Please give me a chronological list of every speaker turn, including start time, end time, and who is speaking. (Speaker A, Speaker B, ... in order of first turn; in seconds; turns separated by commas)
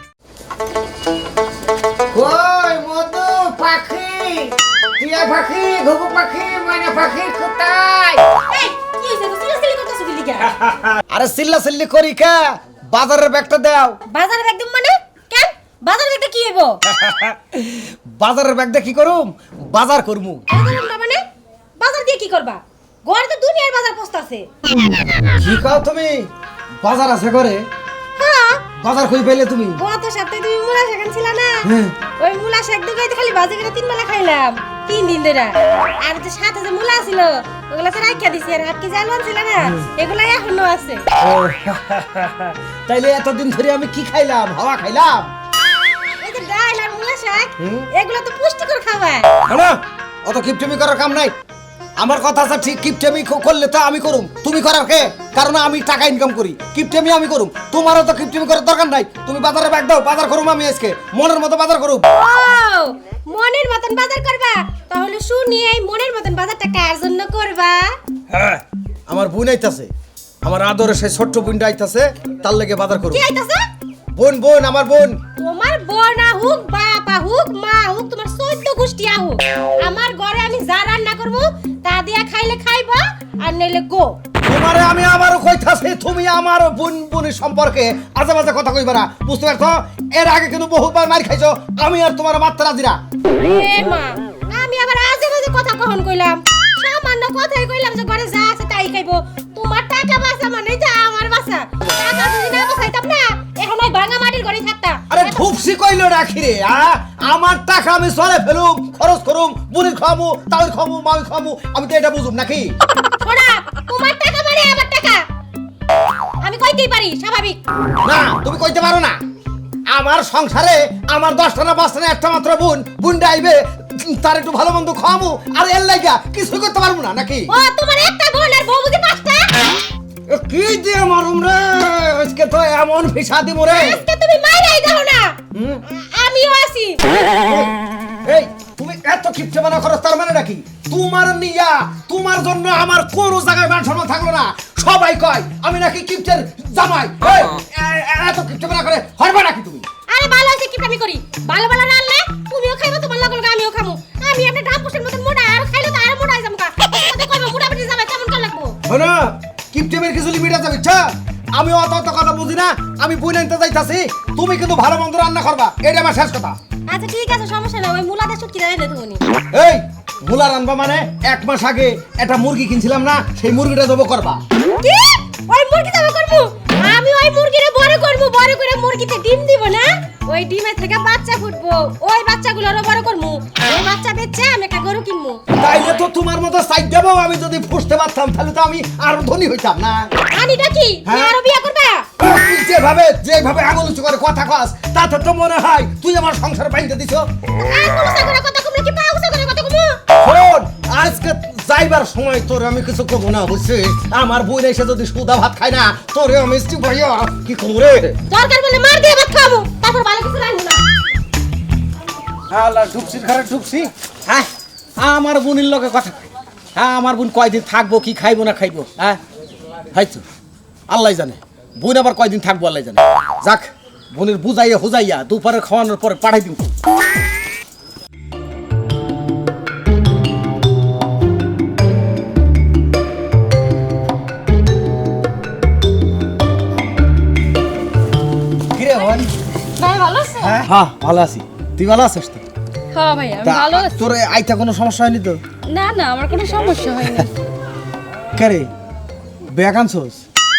Speaker A: 2.1-8.2, Speaker B: 8.5-10.6, Speaker A: 10.6-14.0, Speaker B: 14.1-16.8, Speaker A: 16.9-20.4, Speaker B: 20.5-21.2, Speaker B: 21.8-24.5, Speaker A: 25.4-26.3, Speaker A: 26.8-27.7, Speaker B: 28.2-28.6, Speaker A: 28.8-29.8, Speaker B: 29.8-41.0, Speaker A: 31.6-31.9, Speaker A: 41.2-45.3, Speaker B: 46.2-49.3, Speaker A: 47.6-47.8, Speaker A: 49.4-51.3, Speaker A: 52.0-62.0, Speaker B: 62.1-68.0, Speaker A: 68.3-69.9, Speaker A: 70.4-73.2, Speaker B: 73.1-73.6, Speaker A: 74.1-75.2, Speaker B: 75.4-84.2, Speaker A: 84.4-93.0, Speaker B: 93.5-105.4, Speaker A: 105.1-112.7, Speaker B: 113.2-115.2, Speaker B: 116.4-117.6, Speaker A: 118.0-119.2, Speaker A: 119.9-127.5, Speaker B: 127.5-129.5, Speaker A: 130.3-134.0, Speaker B: 133.7-135.4, Speaker A: 135.5-135.8, Speaker B: 135.9-137.0, Speaker A: 137.2-137.7, Speaker A: 138.2-149.8, Speaker B: 150.1-158.8, Speaker A: 158.9-166.6, Speaker B: 166.9-169.2, Speaker A: 169.5-174.4, Speaker B: 174.8-185.4, Speaker A: 185.6-190.1, Speaker B: 190.3-192.1, Speaker A: 191.0-191.3, Speaker A: 192.2-197.3, Speaker B: 197.6-200.0, Speaker A: 200.2-208.2, Speaker B: 208.3-210.8, Speaker A: 212.5-216.2, Speaker A: 216.8-219.2, Speaker A: 219.9-220.2, Speaker A: 220.9-226.7, Speaker A: 238.7-239.3, Speaker B: 239.8-240.6, Speaker A: 240.4-242.4, Speaker C: 242.9-244.0, Speaker A: 243.4-245.4, Speaker C: 245.7-247.3, Speaker A: 248.3-248.7, Speaker A: 249.5-250.2